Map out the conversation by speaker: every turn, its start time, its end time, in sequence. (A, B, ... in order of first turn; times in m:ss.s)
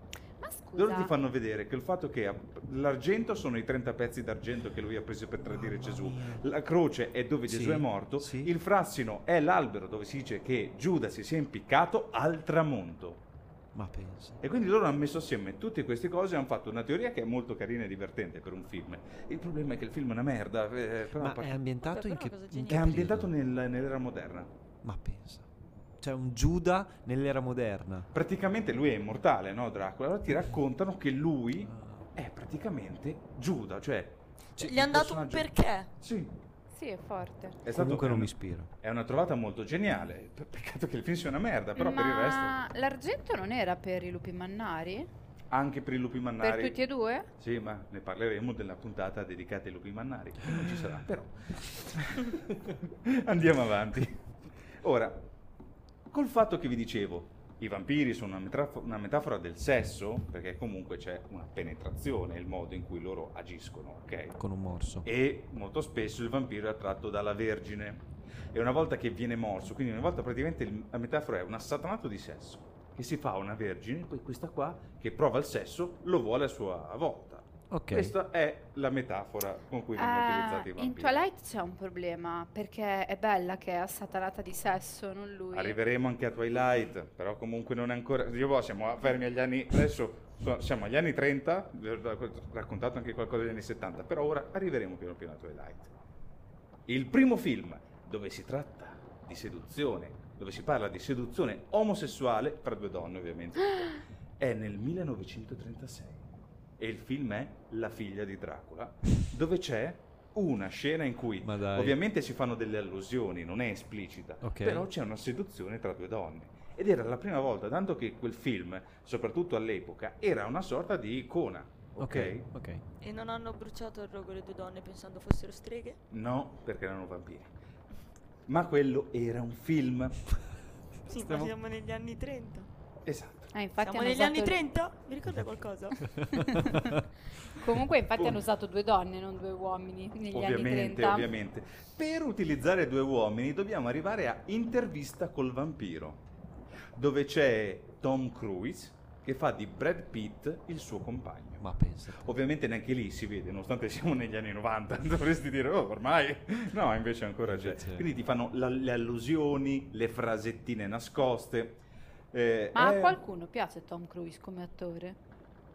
0:00.4-0:01.1 A
0:00.8-0:13.2 B
0:05.4-0:06.4 C
0:07.5-0:08.5 C
0:13.7-0:14.4 C
0:14.4-0:21.6 B
0:21.2-0:23.3 C
0:21.8-0:23.2 D
0:22.7-0:24.5 B
0:24.8-0:25.5 C
0:26.0-0:28.1 C
0:28.1-0:35.5 B
0:31.7-0:32.1 C
0:34.6-0:35.9 D
0:36.0-0:36.3 B
0:36.7-0:37.6 A
0:37.6-0:42.6 B
0:37.7-0:38.7 C
0:41.8-0:45.1 A
0:45.5-0:46.8 B
0:46.4-0:47.3 A
0:47.4-0:54.2 B
0:54.8-0:55.3 B
0:56.1-1:04.4 B
1:04.4-1:05.1 C
1:05.0-1:21.2 B
1:17.7-1:18.2 C
1:20.0-1:25.8 A
1:25.5-1:35.9 B
1:36.9-1:46.2 B
1:46.8-2:02.5 B
1:51.4-1:52.0 C
1:54.4-1:54.9 C
2:02.0-2:02.8 C
2:03.0-2:06.0 D
2:06.1-2:07.5 B
2:08.5-2:10.2 B
2:11.1-2:12.7 D
2:11.1-2:11.5 C
2:13.0-2:13.5 B
2:13.5-2:14.6 A
2:13.8-2:16.2 D
2:16.1-2:17.0 C
2:16.5-2:16.8 A
2:17.6-2:21.3 A
2:18.2-2:18.4 B
2:20.3-2:26.2 B
2:27.0-2:41.8 B
2:31.6-2:32.4 C
2:37.4-2:38.1 C
2:42.3-2:43.2 B
2:42.8-2:45.2 A